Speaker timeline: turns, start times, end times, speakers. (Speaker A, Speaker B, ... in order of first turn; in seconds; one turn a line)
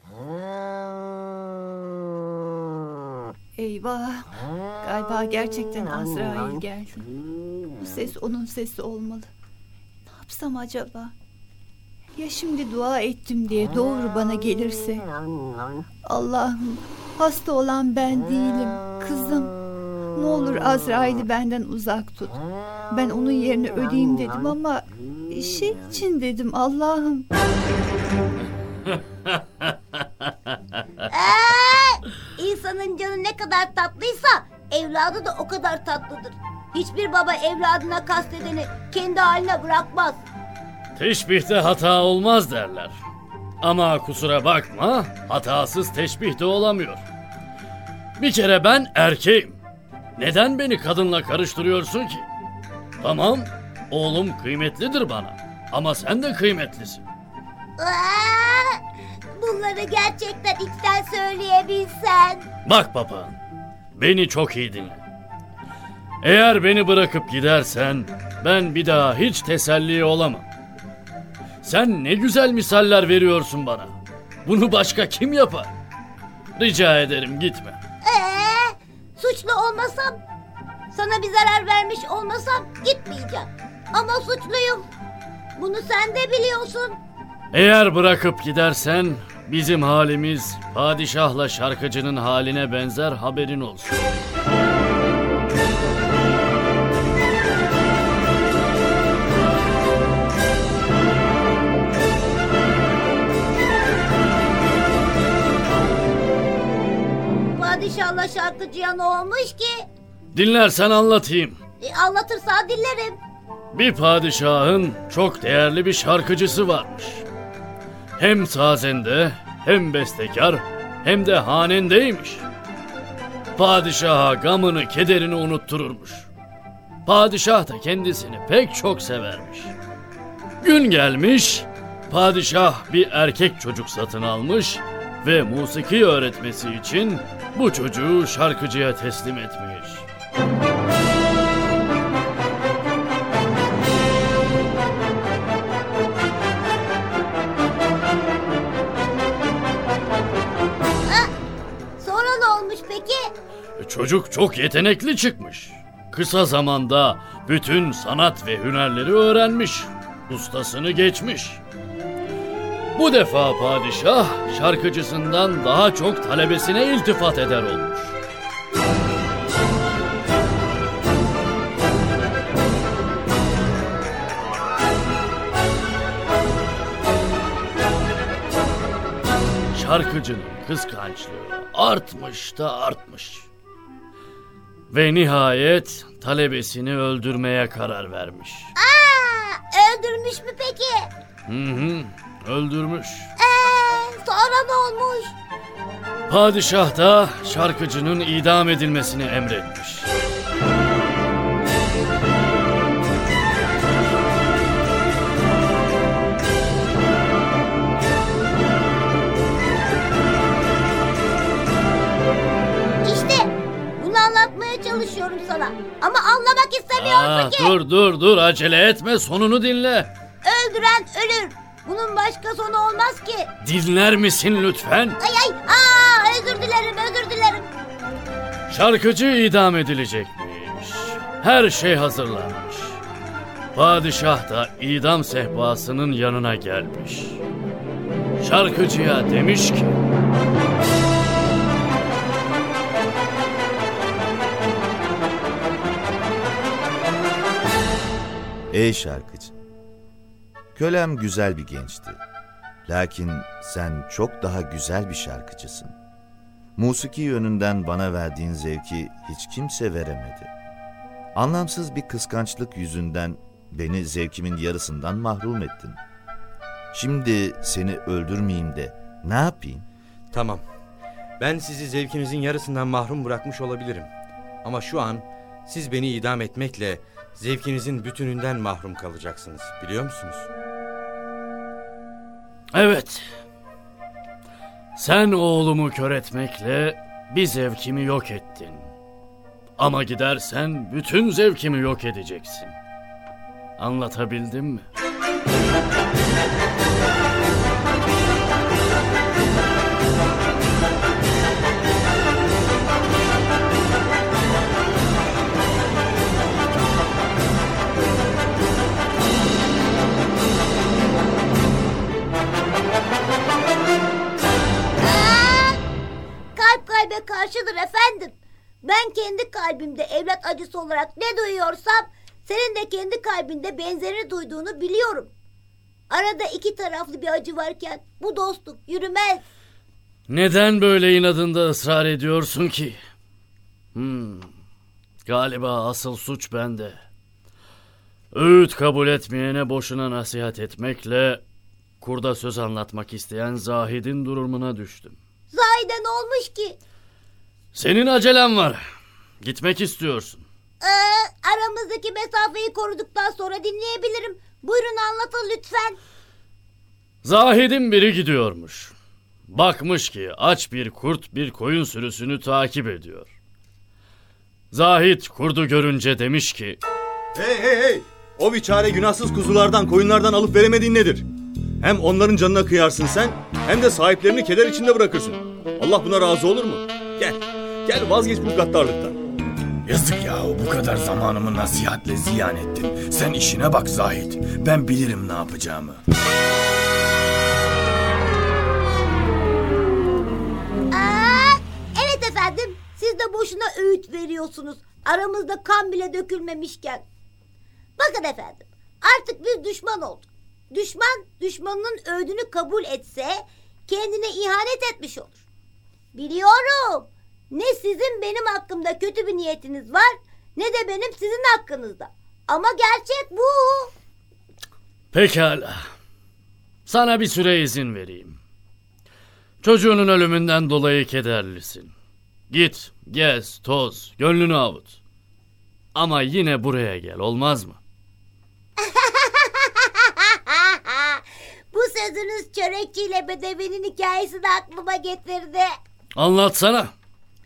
Speaker A: 3.5-4.3
Speaker A: 4.8-7.0
Speaker A: 7.8-9.3
Speaker A: 10.1-11.1
Speaker A: 12.2-15.1
Speaker A: 16.1-19.5
Speaker A: 20.1-22.4
Speaker A: 22.9-27.2
Speaker B: 31.1-40.2
Speaker C: 40.9-43.0
Speaker C: 43.6-47.0
Speaker C: 48.2-49.6
Speaker C: 50.2-52.2
Speaker C: 53.0-57.0
Speaker B: 57.8-58.8
Speaker B: 59.4-62.5
Speaker C: 62.7-63.4
Speaker C: 64.0-65.0
Speaker C: 66.2-70.5
Speaker C: 71.6-75.7
Speaker C: 76.5-77.8
Speaker B: 78.0-80.2
Speaker B: 80.9-84.9
Speaker B: 85.5-87.0
Speaker C: 87.5-94.1
Speaker B: 107.5-109.9
Speaker C: 110.3-111.6
Speaker B: 111.8-113.2
Speaker C: 113.7-117.2
Speaker C: 118.2-122.5
Speaker C: 123.5-126.3
Speaker C: 127.0-129.8
Speaker C: 130.6-140.1
Speaker B: 151.1-151.3
Speaker B: 152.0-153.3
Speaker C: 153.8-161.6
Speaker C: 163.0-168.2
Speaker C: 179.7-183.5
Speaker C: 184.9-188.7
Speaker B: 188.8-191.1
Speaker C: 191.5-193.3
Speaker B: 193.4-195.3
Speaker C: 196.3-200.1
Speaker B: 213.0-217.8
Speaker C: 217.0-220.1
Speaker B: 220.4-223.5
Speaker C: 223.6-225.2
Speaker B: 225.2-227.7
Speaker C: 228.7-233.0
Speaker C: 233.7-237.4
Speaker C: 238.4-240.0
Speaker D: 248.7-249.5
Speaker D: 250.8-252.2
Speaker D: 252.8-255.9
Speaker D: 256.8-260.5
Speaker D: 261.3-266.0
Speaker D: 266.9-269.9
Speaker E: 270.3-270.6
Speaker E: 271.4-274.1
Speaker E: 274.6-280.5
Speaker C: 282.7-283.2
Speaker C: 284.9-288.9
Speaker C: 289.8-292.8
Speaker C: 293.8-294.9
Speaker B: 315.0-315.8
Speaker B: 316.5-325.3
Speaker B: 326.1-329.4
Speaker C: 330.3-333.0
Speaker C: 333.9-334.5
Speaker C: 335.2-337.0
Speaker C: 338.3-341.4
Speaker C: 342.0-345.1
Speaker B: 345.5-346.8
Speaker C: 347.7-348.8
Speaker C: 349.4-350.4
Speaker B: 350.8-356.0
Speaker C: 357.2-358.9
Speaker C: 359.5-363.3
Speaker C: 364.7-366.8
Speaker F: 367.3-371.3
Speaker F: 371.8-379.2
Speaker G: 379.9-386.0
Speaker B: 390.9-397.0
Speaker B: 398.0-405.4
Speaker B: 406.1-413.9
Speaker C: 415.1-415.8
Speaker C: 416.9-418.4
Speaker C: 419.6-421.9
Speaker C: 422.5-425.0
Speaker C: 425.9-427.8
Speaker B: 428.9-429.7
Speaker B: 430.5-435.7
Speaker C: 436.1-436.9